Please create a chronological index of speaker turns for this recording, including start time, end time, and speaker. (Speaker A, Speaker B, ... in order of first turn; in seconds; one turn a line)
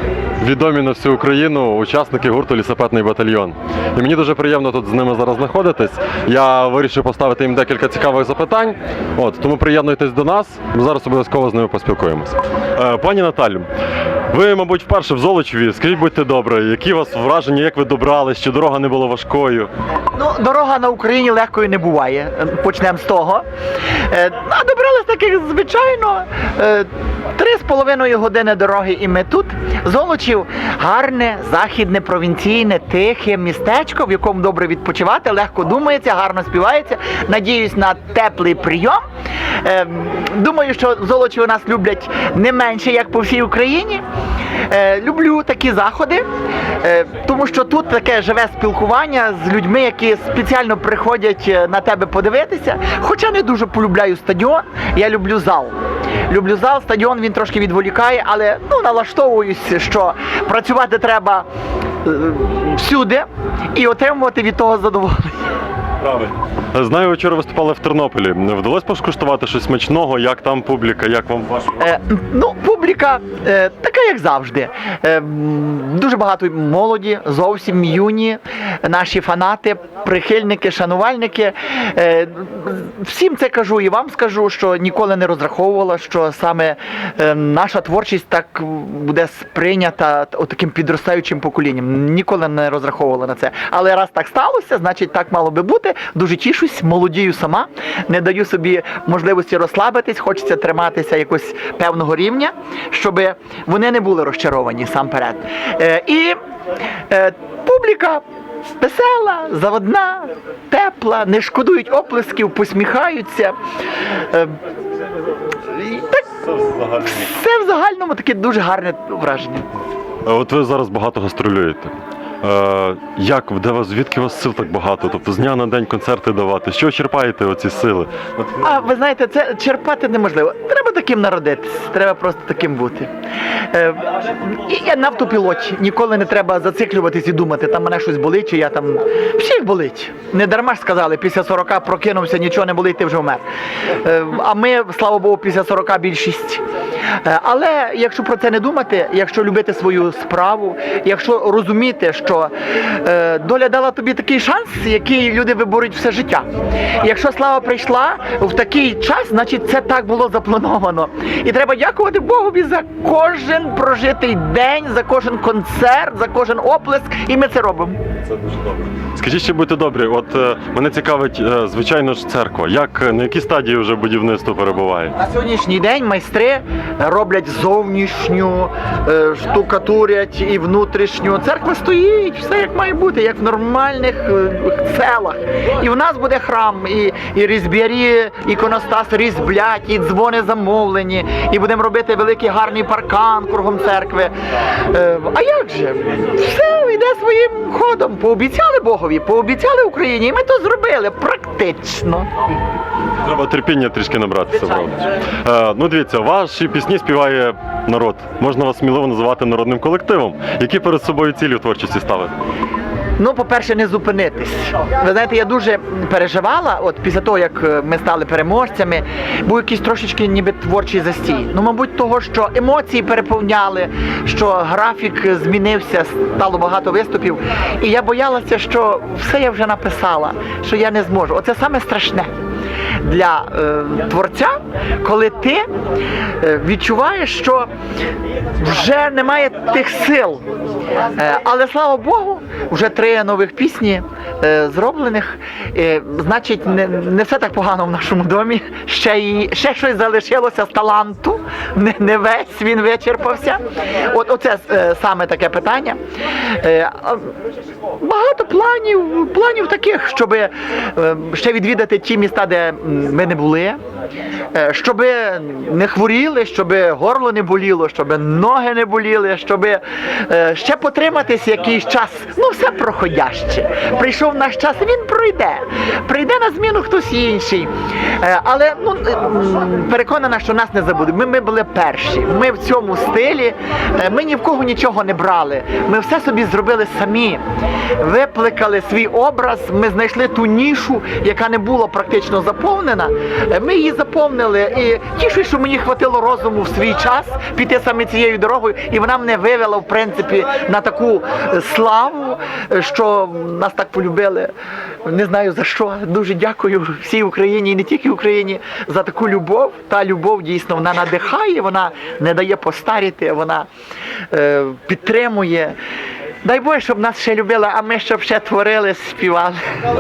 Speaker A: 0.4-13.7
Speaker A: 14.3-19.7
Speaker B: 20.1-23.4
Speaker B: 24.1-39.0
Speaker B: 39.6-44.0
Speaker B: 44.7-46.3
Speaker B: 46.8-55.8
Speaker B: 56.3-61.5
Speaker B: 62.0-65.5
Speaker A: 66.0-71.8
Speaker B: 71.8-106.4
Speaker B: 107.1-108.2
Speaker B: 108.8-113.6
Speaker B: 114.3-114.6
Speaker B: 115.7-116.2
Speaker A: 116.6-117.0
Speaker B: 116.9-119.7
Speaker A: 120.3-128.8
Speaker B: 128.6-146.6
Speaker B: 147.2-156.5
Speaker B: 157.0-168.0
Speaker A: 169.1-175.1
Speaker B: 175.2-202.3
Speaker A: 203.2-212.3
Speaker B: 213.2-232.3
Speaker B: 233.0-235.7
Speaker B: 236.4-237.7
Speaker B: 238.6-240.4
Speaker B: 241.2-257.3
Speaker B: 258.0-263.8
Speaker B: 264.5-287.4
Speaker B: 288.0-304.5
Speaker B: 305.1-313.7
Speaker B: 314.3-315.8
Speaker B: 316.4-319.6